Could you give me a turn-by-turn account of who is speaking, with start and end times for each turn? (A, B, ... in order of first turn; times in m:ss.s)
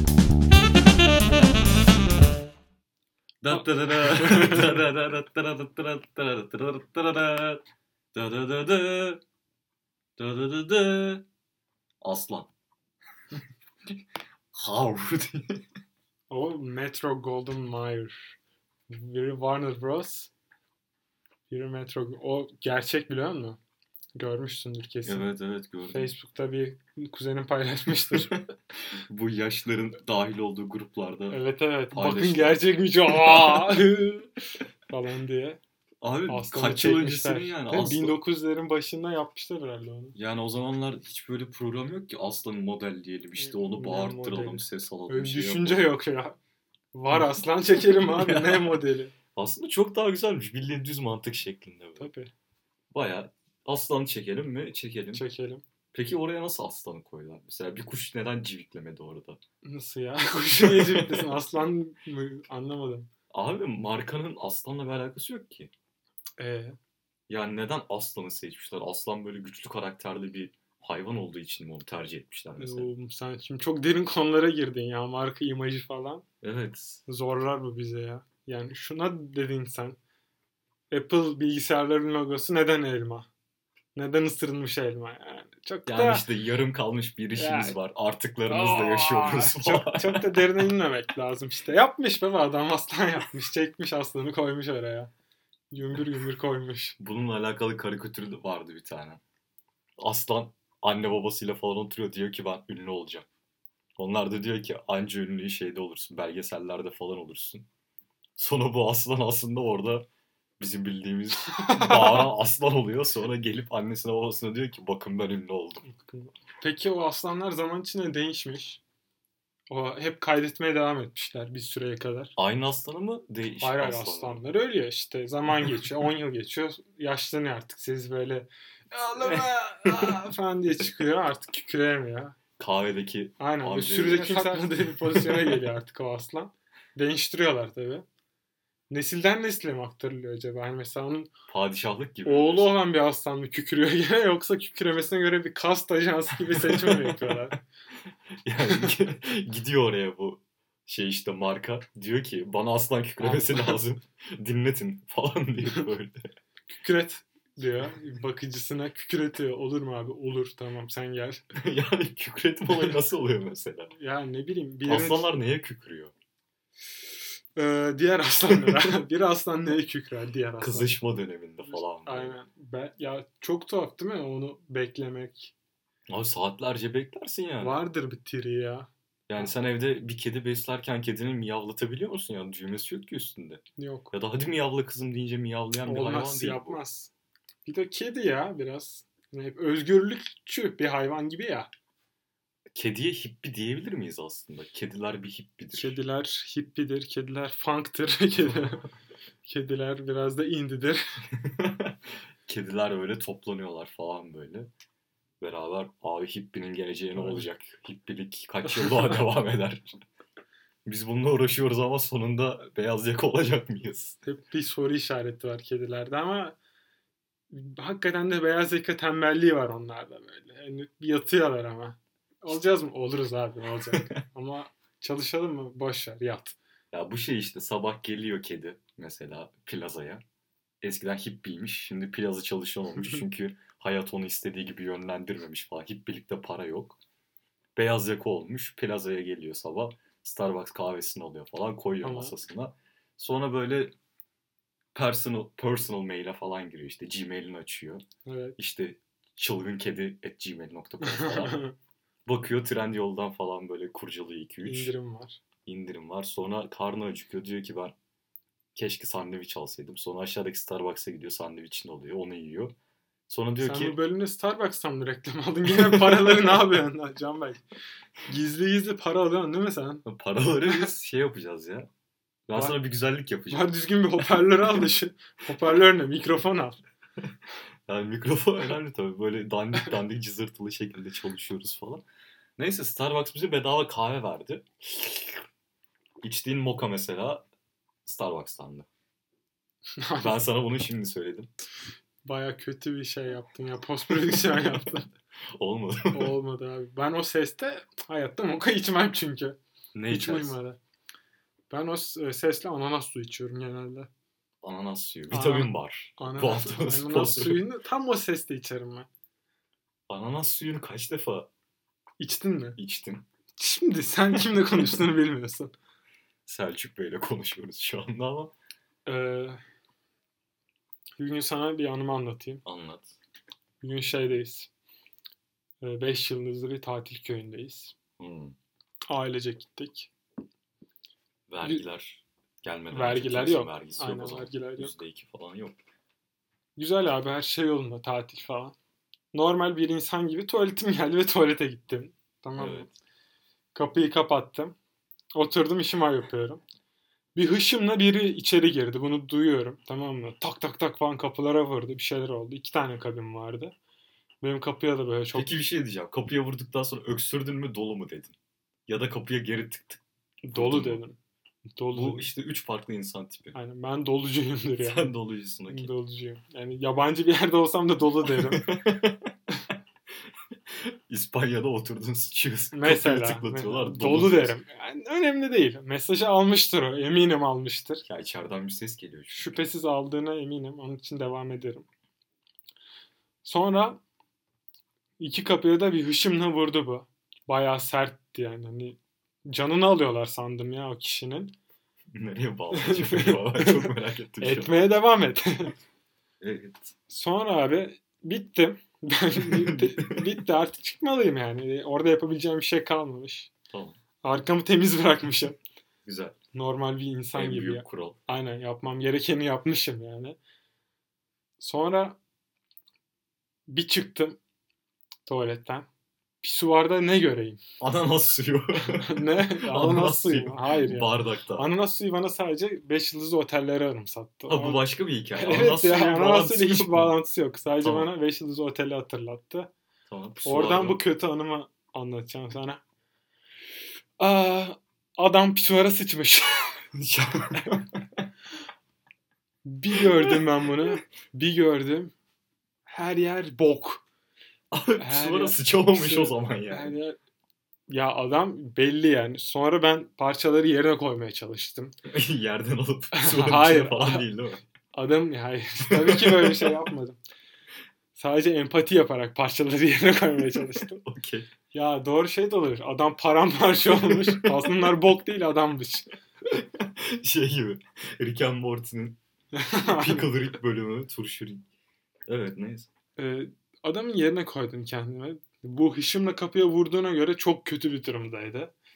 0:01.3-0:01.8 A
0:03.4-0:09.2 A
0:03.5-0:04.7 B
0:10.2-0:11.2 A
0:12.0-0:12.5 A
0:14.5-0:15.6 A
0:16.3-0:18.4 B
0:18.9-0:20.3 B
0:21.5-0:23.6 B
0:24.2-0:25.3 B
0:25.0-0:26.1 A
0:25.9-0:28.4 B
0:28.0-0:33.8 A
0:31.3-0:34.3 B
0:34.9-0:35.6 B
0:36.0-0:38.2 A
0:36.3-0:40.1 B
0:40.1-0:45.9 A
0:43.4-0:46.4 B
0:46.9-0:49.1 B
0:47.1-0:52.1 A
0:52.0-0:52.3 B
0:52.9-0:55.2 A
0:55.1-0:55.6 B
0:55.9-0:59.4 A
0:59.6-1:03.1 B
1:00.6-1:01.3 A
1:03.3-1:05.7 A
1:06.4-1:06.8 B
1:07.3-1:12.9 A
1:12.6-1:16.2 B
1:16.4-1:17.0 A
1:17.1-1:20.0 B
1:20.9-1:23.3 B
1:23.9-1:26.2 B
1:25.8-1:30.7 A
1:27.3-1:27.8 B
1:28.5-1:35.1 B
1:35.7-1:37.0 B
1:37.0-1:39.2 A
1:40.0-1:43.3 A
1:44.0-1:47.7 A
1:48.4-1:50.1 A
1:50.6-1:55.8 A
1:51.5-1:52.3 B
1:55.8-1:58.8 B
1:59.7-2:02.3 B
2:02.4-2:04.4 A
2:03.6-2:12.4 B
2:09.2-2:10.2 A
2:12.6-2:15.6 A
2:13.4-2:18.0 B
2:18.9-2:21.3 B
2:21.5-2:22.7 A
2:22.2-2:27.6 B
2:26.4-2:27.4 A
2:28.4-2:36.3 A
2:33.2-2:33.8 B
2:36.7-2:41.4 B
2:41.5-2:43.9 A
2:43.9-2:45.3 B
2:44.9-2:46.1 A
2:47.6-2:51.0 B
2:48.5-2:48.8 A
2:50.6-2:52.3 A
2:51.6-2:55.5 B
2:56.1-2:57.8 A
2:57.6-2:59.5 B
2:59.3-3:06.8 A
3:03.8-3:04.1 B
3:05.8-3:07.1 B
3:07.6-3:11.7 B
3:12.7-3:16.0 A
3:15.7-3:18.8 B
3:18.4-3:18.7 A
3:19.4-3:21.2 B
3:21.3-3:24.7 A
3:25.4-3:29.9 A
3:27.1-3:27.4 B
3:28.6-3:29.2 B
3:30.8-3:34.2 A
3:34.2-3:36.6 B
3:37.5-3:46.6 B
3:43.9-3:44.2 A
3:46.9-3:50.2 A
3:50.8-3:57.0 A
3:57.8-4:03.9 A
4:02.0-4:02.3 B
4:04.9-4:08.0 A
4:08.2-4:08.6 B
4:08.6-4:11.6 A
4:11.0-4:11.7 B
4:12.2-4:14.9 A
4:14.6-4:15.4 B
4:15.6-4:17.9 A
4:18.7-4:22.7 A
4:23.3-4:24.0 A
4:23.6-4:27.6 B
4:25.7-4:26.7 A
4:28.2-4:30.0 B
4:30.0-4:31.9 A
4:32.5-4:33.7 A
4:33.5-4:36.8 B
4:34.2-4:34.8 A
4:37.8-4:42.0 A
4:42.6-4:45.4 A
4:46.2-4:47.4 A
4:48.0-4:48.9 A
4:50.0-4:50.4 B
4:50.2-4:51.5 A
4:52.2-4:55.1 B
4:55.6-4:56.3 A
4:56.1-4:59.6 B
4:59.9-5:00.6 A
5:00.1-5:00.8 B
5:01.7-5:04.1 B
5:04.6-5:07.6 A
5:05.3-5:09.1 B
5:10.1-5:11.5 A
5:12.2-5:12.8 B
5:12.8-5:13.2 A
5:13.6-5:15.7 B
5:16.4-5:18.5 A
5:19.0-5:19.6 B
5:21.2-5:22.6 B
5:22.6-5:23.1 A
5:23.8-5:24.7 B
5:25.8-5:27.9 B
5:28.2-5:28.6 A
5:29.1-5:30.1 B
5:31.5-5:35.8 A
5:32.9-5:34.9 B
5:36.8-5:38.8 B
5:39.3-5:42.9 B
5:42.6-5:42.9 A
5:43.7-5:44.7 B
5:45.3-5:46.6 B
5:47.3-5:53.7 B
5:54.4-5:55.5 B
5:55.3-5:58.3 A
5:58.9-6:00.0 A
6:00.4-6:01.2 B
6:00.5-6:01.0 A
6:01.8-6:02.3 B
6:01.9-6:03.6 A
6:03.5-6:05.1 B
6:04.8-6:05.9 A
6:05.7-6:08.7 B
6:08.2-6:09.3 A
6:10.5-6:14.6 A
6:12.7-6:18.0 B
6:18.0-6:19.5 A
6:19.3-6:21.9 B
6:23.4-6:24.0 B
6:25.2-6:31.5 B
6:32.1-6:34.9 A
6:32.7-6:35.8 B
6:36.4-6:36.9 A
6:37.1-6:43.5 B
6:39.4-6:40.2 A
6:43.7-6:44.0 A
6:44.2-6:45.6 B
6:46.0-6:46.4 A
6:46.5-6:50.4 B
6:47.3-6:48.2 A
6:51.6-6:52.2 B
6:53.7-6:54.4 B
6:55.2-6:55.9 B
6:56.4-6:57.6 B
6:57.8-7:01.7 A
6:58.8-7:04.8 B
7:04.5-7:07.1 A
7:05.4-7:09.7 B
7:07.8-7:08.1 A
7:10.1-7:11.0 A
7:10.4-7:12.8 B
7:14.2-7:16.8 B
7:16.9-7:18.2 A
7:19.6-7:22.1 B
7:19.9-7:20.4 A
7:22.9-7:24.0 B
7:24.7-7:27.0 A
7:25.0-7:27.2 B
7:27.9-7:32.0 B
7:32.1-7:34.6 A
7:33.1-7:34.2 B
7:34.9-7:37.2 B
7:35.9-7:36.7 A
7:38.1-7:41.0 B
7:41.0-7:41.5 A
7:41.7-7:46.1 B
7:43.9-7:44.9 A
7:46.4-7:49.2 A
7:49.5-7:50.3 B
7:49.8-7:51.7 A
7:52.3-7:52.9 A
7:53.2-7:58.7 B